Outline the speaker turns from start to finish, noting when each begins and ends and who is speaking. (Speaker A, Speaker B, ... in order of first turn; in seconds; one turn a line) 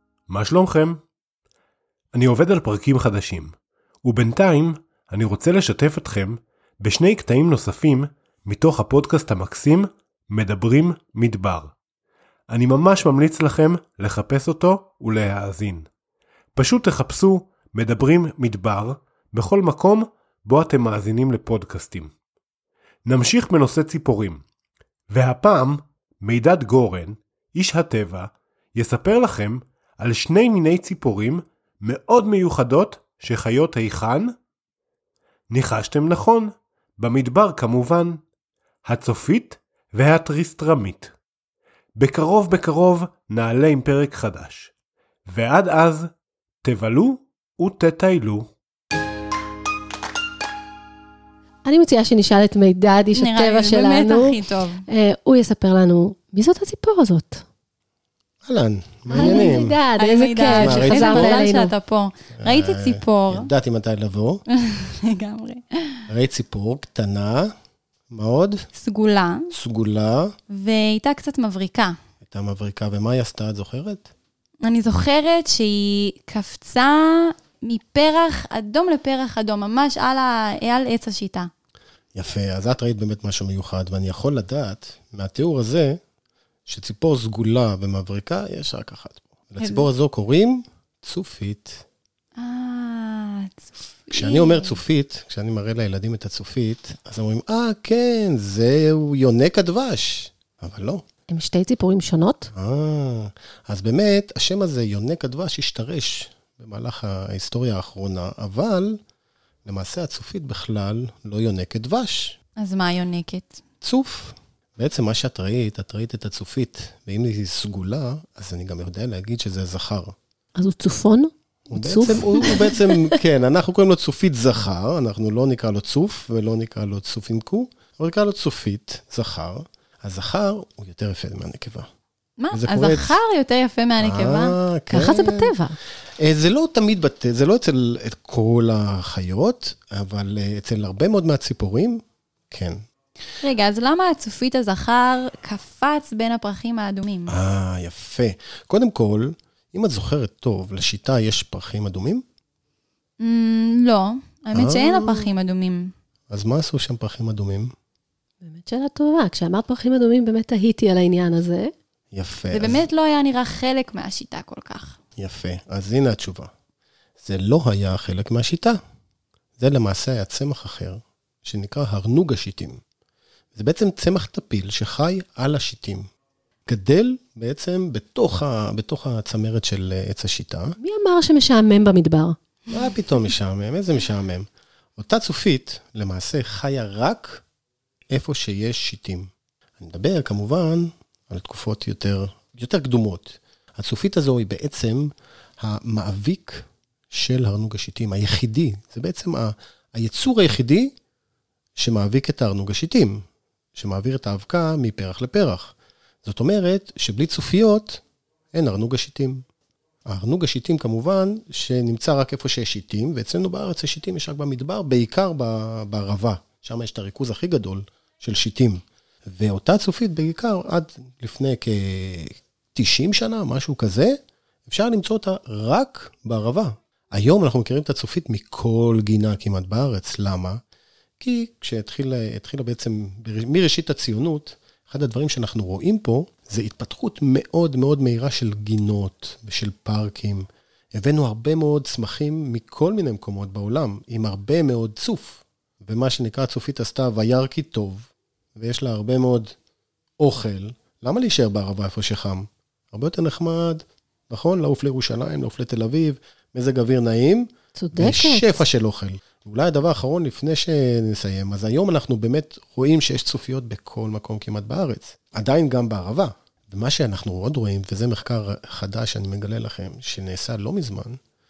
Speaker A: 0.3-1.0
Speaker A: 2.1-11.7
Speaker A: 12.5-15.9
Speaker A: 16.6-22.1
Speaker A: 23.1-24.4
Speaker A: 25.1-34.3
Speaker A: 35.5-38.2
Speaker A: 38.9-41.1
Speaker A: 42.0-44.7
Speaker A: 45.3-46.1
Speaker A: 46.6-48.5
Speaker B: 51.6-54.4
Speaker C: 53.1-54.8
Speaker B: 54.9-57.4
Speaker D: 58.4-59.8
Speaker C: 59.1-63.5
Speaker B: 59.1-61.7
Speaker D: 60.6-61.5
Speaker D: 62.4-64.4
Speaker C: 64.6-66.0
Speaker D: 66.1-67.5
Speaker D: 68.1-68.7
Speaker C: 68.7-69.5
Speaker D: 69.5-70.3
Speaker C: 70.5-71.9
Speaker D: 72.2-74.1
Speaker C: 74.6-81.5
Speaker D: 82.1-86.0
Speaker D: 86.7-91.8
Speaker C: 89.6-89.9
Speaker C: 92.4-94.8
Speaker D: 94.1-101.0
Speaker B: 101.3-102.5
Speaker D: 102.5-109.0
Speaker D: 109.7-112.4
Speaker C: 112.6-113.6
Speaker D: 113.8-120.1
Speaker B: 120.5-122.8
Speaker D: 121.7-131.9
Speaker C: 132.4-134.6
Speaker D: 132.5-133.2
Speaker D: 134.0-135.5
Speaker B: 134.9-135.8
Speaker D: 136.2-142.8
Speaker C: 143.4-147.4
Speaker D: 147.3-152.2
Speaker C: 153.2-155.9
Speaker D: 154.5-155.3
Speaker D: 156.3-157.7
Speaker B: 158.4-161.7
Speaker D: 162.1-162.8
Speaker C: 162.5-165.0
Speaker D: 165.2-166.5
Speaker D: 167.2-168.8
Speaker D: 169.6-172.8
Speaker D: 173.6-176.1
Speaker D: 176.7-180.8
Speaker B: 180.8-182.3
Speaker D: 182.7-184.5
Speaker D: 185.0-187.4
Speaker D: 188.1-200.9
Speaker D: 201.8-203.2
Speaker D: 203.8-208.0
Speaker D: 208.5-209.4
Speaker D: 210.1-224.2
Speaker D: 224.7-230.6
Speaker D: 231.2-249.5
Speaker D: 250.2-271.2
Speaker B: 257.8-258.6